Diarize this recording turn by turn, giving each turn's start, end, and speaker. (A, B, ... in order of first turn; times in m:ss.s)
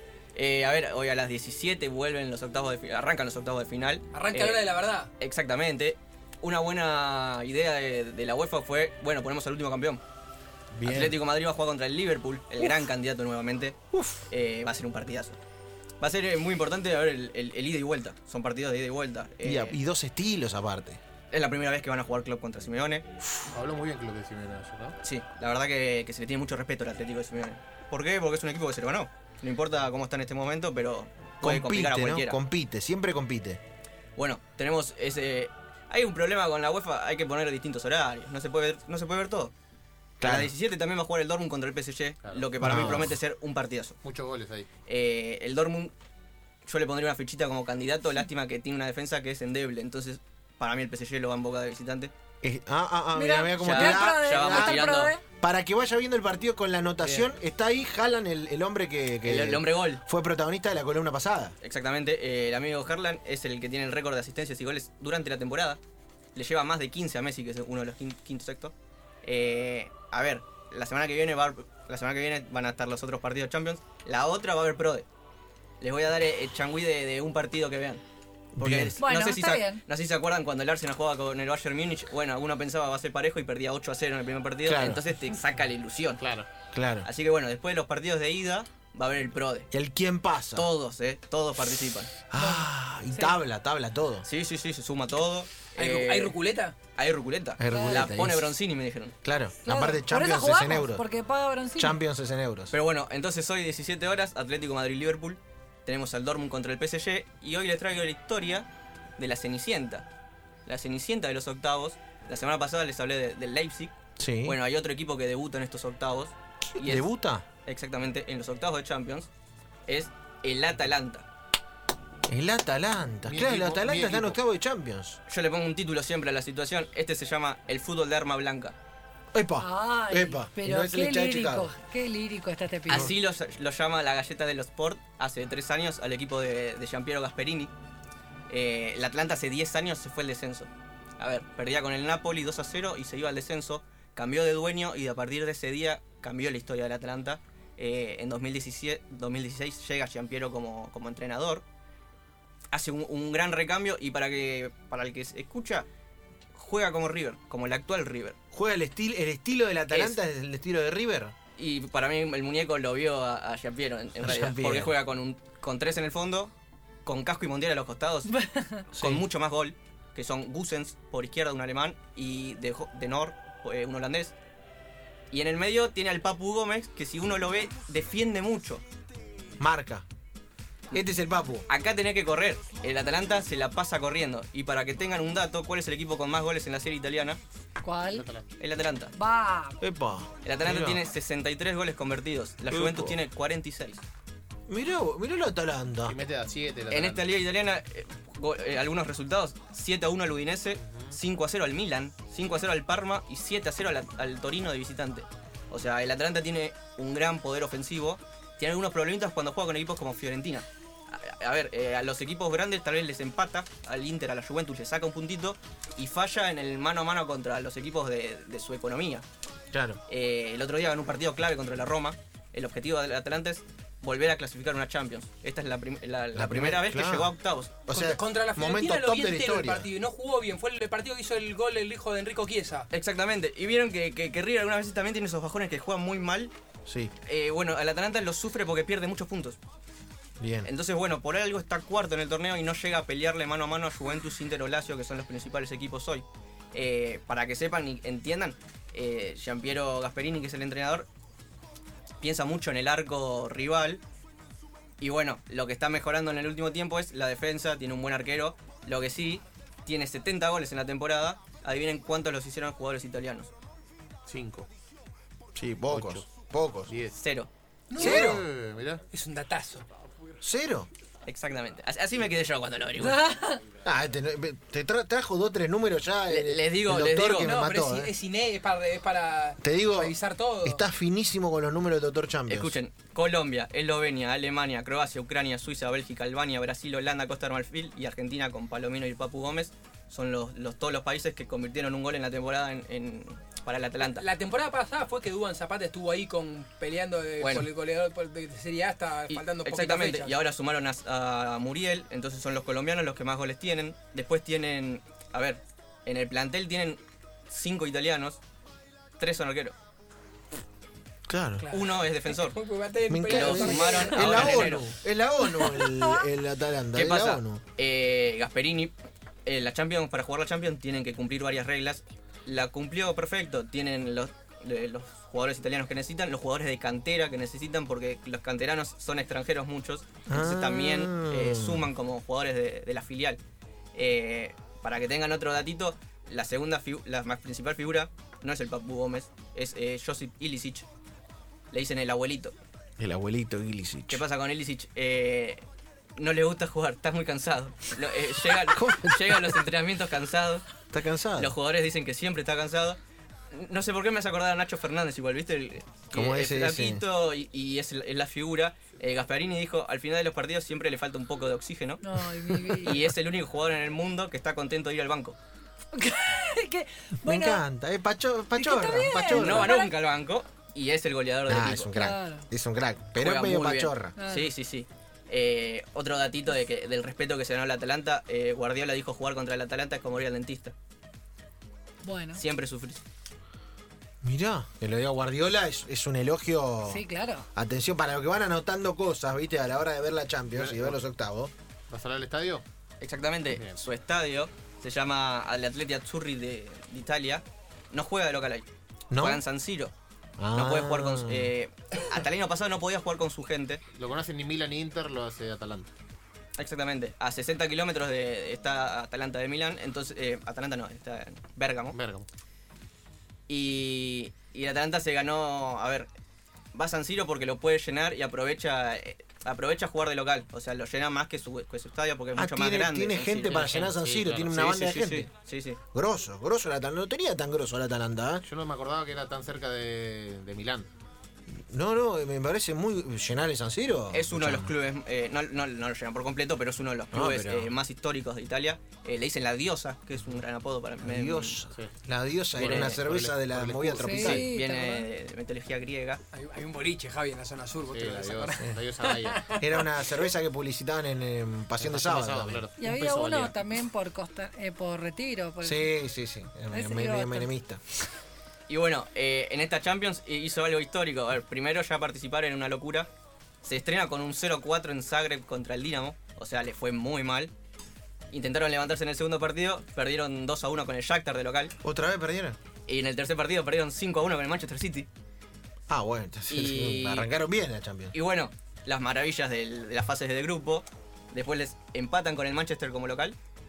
0:00.3-0:10.0 A
0:04.1-0:05.1 B
0:10.7-0:11.2 C
0:10.8-0:13.8 A
0:13.9-0:14.3 C
0:14.3-0:15.4 A
0:16.0-0:19.8 A
0:19.4-0:21.0 C
0:21.3-0:23.0 A
0:23.5-0:24.9 D
0:25.0-0:32.4 A
0:31.4-0:33.6 C
0:34.2-0:39.5 A
0:40.2-0:40.5 C
0:40.2-0:44.0 A
0:42.2-0:42.5 D
0:42.6-0:43.2 C
0:44.0-0:44.7 D
0:44.9-0:45.9 A
0:46.6-0:52.1 A
0:52.4-0:54.8 C
0:53.1-0:55.2 E
0:53.6-0:55.1 A
0:55.4-1:01.6 C
0:59.2-1:00.0 A
1:01.6-1:05.8 A
1:06.3-1:08.7 A
1:09.2-1:15.0 A
1:15.8-1:18.0 A
1:18.6-1:18.9 C
1:18.6-1:26.2 A
1:19.0-1:19.8 E
1:24.6-1:25.0 C
1:26.2-1:26.5 D
1:26.7-1:27.1 C
1:27.0-1:29.7 A
1:29.7-1:30.7 C
1:30.5-1:32.2 A
1:32.3-1:34.2 C
1:32.3-1:33.4 E
1:34.2-1:36.4 A
1:35.7-1:36.7 B
1:36.9-1:39.1 A
1:37.6-1:38.6 C
1:37.7-1:38.1 E
1:39.2-1:41.0 C
1:39.6-1:42.0 E
1:41.8-1:42.7 C
1:42.7-1:50.0 A
1:50.6-1:57.1 A
1:54.2-1:54.6 C
1:56.7-1:57.4 C
1:57.6-1:59.3 A
1:59.9-2:01.2 A
2:02.3-2:05.2 C
2:03.3-2:04.4 D
2:05.3-2:08.7 A
2:09.3-2:11.7 C
2:09.6-2:13.1 E
2:12.9-2:17.7 A
2:18.5-2:31.6 A
2:32.7-2:35.8 A
2:36.5-2:38.4 A
2:38.5-2:41.3 C
2:39.9-2:40.2 A
2:41.6-2:46.5 A
2:44.2-2:45.0 C
2:47.0-2:48.3 A
2:48.4-2:48.8 E
2:48.9-2:54.3 A
2:49.0-2:49.2 C
2:55.3-2:58.8 A
2:59.6-3:00.0 C
3:00.9-3:01.6 C
3:01.7-3:07.4 A
3:07.8-3:08.3 E
3:08.1-3:08.5 D
3:08.6-3:09.1 A
3:09.2-3:09.8 E
3:09.8-3:11.0 C
3:10.4-3:14.0 A
3:12.7-3:13.2 C
3:14.7-3:16.2 C
3:16.1-3:17.3 D
3:16.9-3:39.2 A
3:20.8-3:21.1 D
3:39.7-3:40.0 C
3:40.1-3:47.9 A
3:46.3-3:47.3 C
3:47.9-3:49.9 C
3:47.9-3:52.9 B
3:52.9-3:56.5 A
3:56.9-3:57.1 C
3:57.2-3:59.6 A
4:00.4-4:00.7 C
4:00.6-4:11.1 A
4:12.2-4:14.0 A
4:15.0-4:23.5 A
4:24.3-4:24.7 D
4:25.6-4:26.9 C
4:25.8-4:26.3 D
4:26.9-4:27.2 D
4:27.1-4:27.5 A
4:27.9-4:28.2 B
4:28.0-4:29.0 D
4:28.0-4:28.4 C
4:29.1-4:29.8 B
4:30.4-4:30.9 C
4:31.2-4:33.3 A
4:33.2-4:33.6 E
4:33.8-4:38.1 C
4:36.3-4:37.5 A
4:37.4-4:40.8 B
4:39.6-4:42.8 C
4:42.5-4:54.3 A
4:54.0-5:00.4 B
4:57.4-4:57.7 A
4:59.3-5:08.4 A
5:09.2-5:09.7 A
5:11.3-5:11.7 C
5:11.6-5:14.6 B
5:11.7-5:12.6 A
5:13.1-5:17.6 C
5:13.3-5:15.0 A
5:16.9-5:18.9 A
5:19.4-5:33.4 A
5:30.3-5:31.9 C
5:33.9-5:40.9 A
5:41.7-5:42.5 A
5:43.0-5:44.2 C
5:44.1-5:45.6 A
5:46.2-5:50.8 A
5:48.6-5:49.7 C
5:50.9-5:51.6 C
5:51.4-5:53.0 A
5:53.5-6:02.1 A
5:56.1-5:57.0 C
6:02.0-6:03.0 E
6:02.8-6:05.4 A
6:05.9-6:07.6 E
6:07.2-6:09.7 C
6:08.5-6:09.9 E
6:09.3-6:11.9 A
6:11.4-6:14.2 C
6:11.9-6:12.5 E
6:13.2-6:20.7 A
6:14.2-6:14.5 E
6:22.0-6:22.4 E
6:22.3-6:23.0 A
6:24.2-6:27.0 C
6:26.8-6:27.4 E
6:27.6-6:31.5 C
6:30.5-6:31.0 D
6:31.9-6:32.6 D
6:33.0-6:38.6 A
6:33.5-6:33.8 D
6:39.1-6:39.4 C
6:39.2-6:39.9 A
6:40.4-6:41.5 C
6:40.5-6:43.8 A
6:43.9-6:45.9 D
6:46.6-6:52.0 A
6:51.9-6:52.3 D
6:53.5-6:56.1 A
6:56.7-7:05.8 A
7:02.3-7:05.3 C
7:03.6-7:04.4 D
7:05.9-7:08.4 C
7:08.4-7:10.9 D
7:11.7-7:14.7 C
7:14.1-7:21.6 A
7:17.1-7:17.7 C
7:21.0-7:24.5 C
7:22.5-7:24.4 D
7:22.6-7:23.0 A
7:24.0-7:25.1 E
7:24.4-7:26.2 A
7:26.3-7:29.6 B
7:27.9-7:29.6 D
7:29.5-7:32.6 C
7:31.8-7:33.6 D
7:32.8-7:35.9 E
7:35.6-7:37.8 C
7:36.7-7:37.5 E
7:38.7-7:43.1 A
7:43.6-7:47.5 A
7:48.3-7:51.7 A
7:51.8-7:52.6 C
7:52.9-7:55.1 A
7:55.9-7:58.1 C
7:56.5-7:57.3 A
7:58.1-8:03.4 A